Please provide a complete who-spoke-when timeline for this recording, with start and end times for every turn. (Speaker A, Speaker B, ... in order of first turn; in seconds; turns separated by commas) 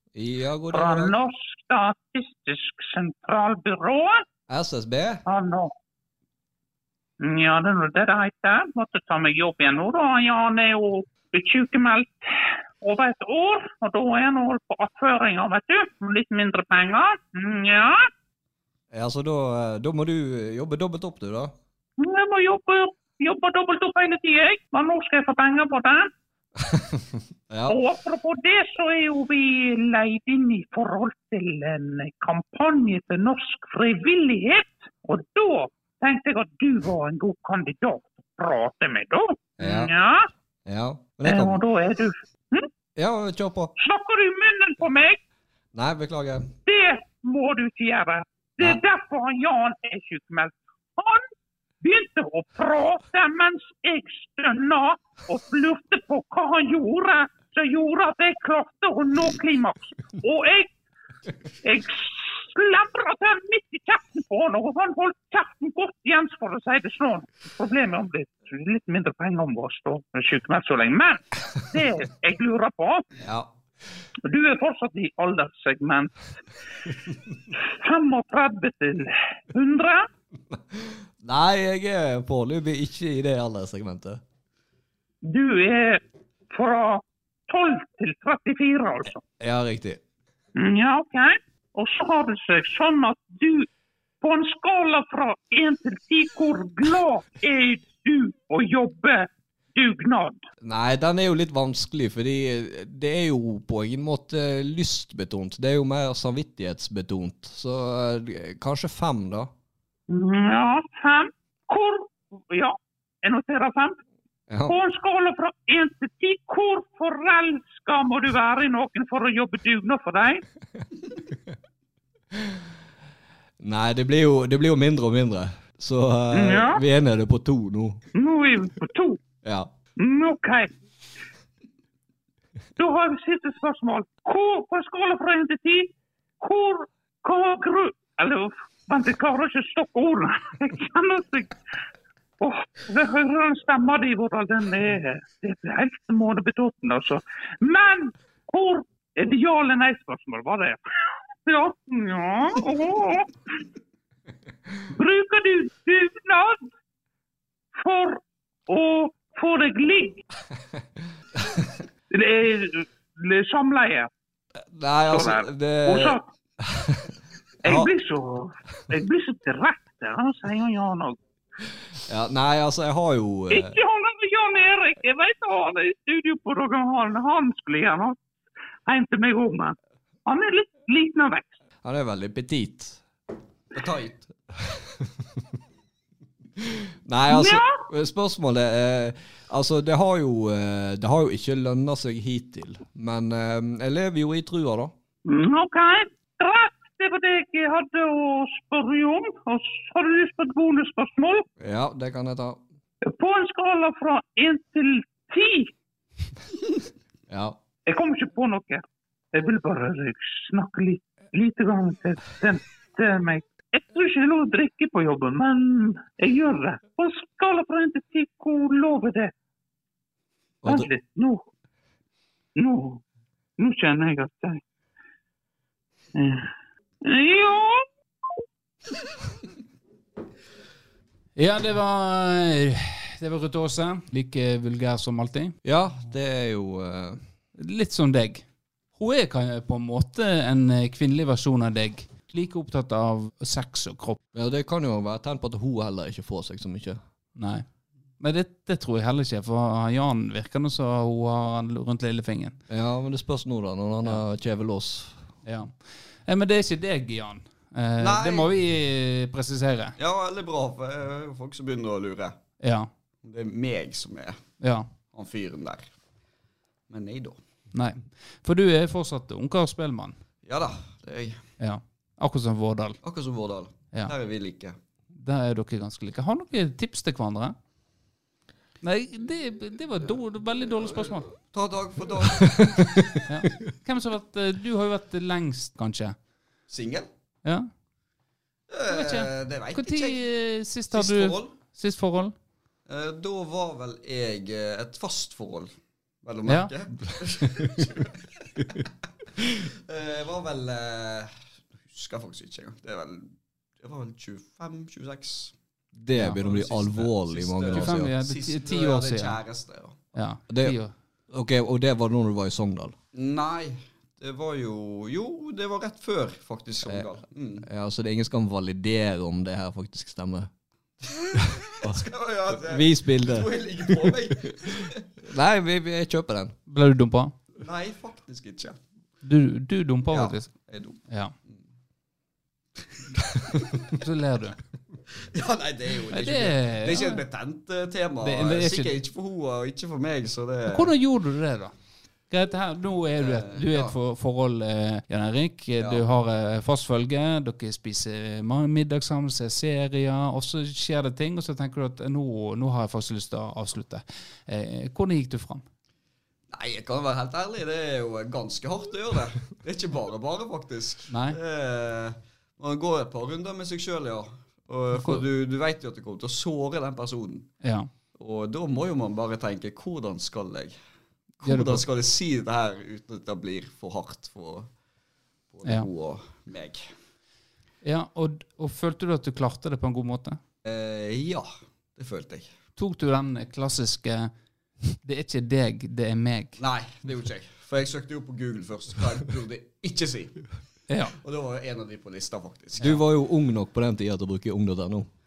Speaker A: 0.1-1.2, Speaker B: 0.7-4.2, Speaker A: 4.5-5.2, Speaker B: 5.3-5.7, Speaker B: 7.2-18.1, Speaker A: 18.9-21.5, Speaker B: 22.0-26.1, Speaker A: 26.6-27.8, Speaker B: 27.7-40.3, Speaker A: 39.6-39.9, Speaker A: 40.7-41.6, Speaker B: 41.3-42.7, Speaker A: 43.0-43.7, Speaker B: 43.8-45.2, Speaker A: 45.7-46.5, Speaker B: 46.7-51.2, Speaker B: 51.8-60.7, Speaker B: 61.6-73.0, Speaker A: 73.2-73.5, Speaker B: 74.2-76.3, Speaker B: 77.7-80.1, Speaker A: 80.5-84.2, Speaker B: 85.2-89.2, Speaker A: 89.4-90.0, Speaker B: 90.6-93.7, Speaker B: 94.2-100.5, Speaker A: 100.6-109.5, Speaker B: 110.1-114.0, Speaker A: 114.5-114.8, Speaker B: 114.7-120.4, Speaker A: 122.3-122.6, Speaker A: 123.6-128.0, Speaker B: 126.3-126.8, Speaker B: 128.2-129.2, Speaker A: 129.4-129.7, Speaker B: 130.0-130.7, Speaker B: 132.8-141.6, Speaker B: 142.4-150.8, Speaker B: 151.5-153.3, Speaker B: 154.9-156.7, Speaker B: 157.8-160.2, Speaker A: 161.4-161.7, Speaker B: 162.1-164.1, Speaker A: 164.6-167.1, Speaker B: 165.1-166.2, Speaker A: 167.6-167.9, Speaker B: 167.6-171.2, Speaker A: 172.1-173.8, Speaker B: 173.5-178.2, Speaker B: 178.9-179.8, Speaker B: 180.3-181.6, Speaker A: 181.8-183.0, Speaker C: 183.7-184.3, Speaker A: 184.6-185.5, Speaker A: 186.6-194.9, Speaker B: 187.3-187.8, Speaker B: 195.3-201.5, Speaker A: 201.6-202.6, Speaker B: 203.0-205.7, Speaker A: 207.3-207.6, Speaker B: 207.9-219.3, Speaker A: 220.6-220.9, Speaker B: 220.7-221.4, Speaker B: 222.6-223.0, Speaker B: 223.6-224.6, Speaker B: 226.1-226.5, Speaker B: 227.0-227.8, Speaker D: 231.4-235.6, Speaker A: 235.7-237.2, Speaker D: 237.6-244.2, Speaker A: 244.3-247.0, Speaker D: 247.4-247.7, Speaker D: 248.2-252.6, Speaker A: 252.7-255.3, Speaker D: 255.4-255.7, Speaker D: 256.3-260.0, Speaker C: 258.0-258.5, Speaker C: 260.0-262.4, Speaker D: 262.6-262.9, Speaker C: 263.2-264.4, Speaker D: 264.6-264.9, Speaker C: 265.1-265.9, Speaker C: 266.9-267.4, Speaker D: 267.7-270.2, Speaker C: 270.4-271.4, Speaker D: 271.6-273.0, Speaker C: 273.0-274.8, Speaker D: 275.1-277.6, Speaker D: 278.8-281.3, Speaker C: 281.5-282.8, Speaker A: 282.3-283.1, Speaker D: 283.3-286.2, Speaker C: 286.7-287.1, Speaker D: 287.4-287.7, Speaker C: 288.7-290.2, Speaker D: 288.9-292.4, Speaker C: 290.9-291.5, Speaker C: 292.9-295.7, Speaker C: 296.2-298.4, Speaker C: 299.7-301.3, Speaker C: 301.9-305.5, Speaker A: 305.9-308.1, Speaker C: 306.3-310.0, Speaker D: 307.7-309.4, Speaker D: 310.1-310.9, Speaker A: 310.5-310.8, Speaker A: 311.3-313.0, Speaker C: 313.1-317.7, Speaker A: 316.9-320.5, Speaker C: 321.1-325.0, Speaker A: 321.3-326.6, Speaker D: 326.7-327.4, Speaker C: 327.6-328.8, Speaker D: 329.2-330.5, Speaker C: 330.1-331.0, Speaker D: 331.1-331.3, Speaker D: 333.9-334.6, Speaker C: 335.2-340.9, Speaker D: 336.1-337.2, Speaker D: 338.2-338.9, Speaker D: 340.7-341.7, Speaker D: 342.3-355.6, Speaker C: 343.2-344.0, Speaker C: 356.5-367.5, Speaker D: 361.1-361.4, Speaker D: 364.9-365.2, Speaker D: 367.6-367.9, Speaker C: 368.2-370.8, Speaker C: 371.4-374.7, Speaker D: 371.4-371.9, Speaker C: 375.5-376.9, Speaker D: 377.8-380.4, Speaker C: 380.6-382.5, Speaker D: 382.8-384.3, Speaker D: 385.0-386.6, Speaker C: 386.6-390.5, Speaker D: 390.9-391.1, Speaker C: 391.1-393.0, Speaker A: 392.8-395.1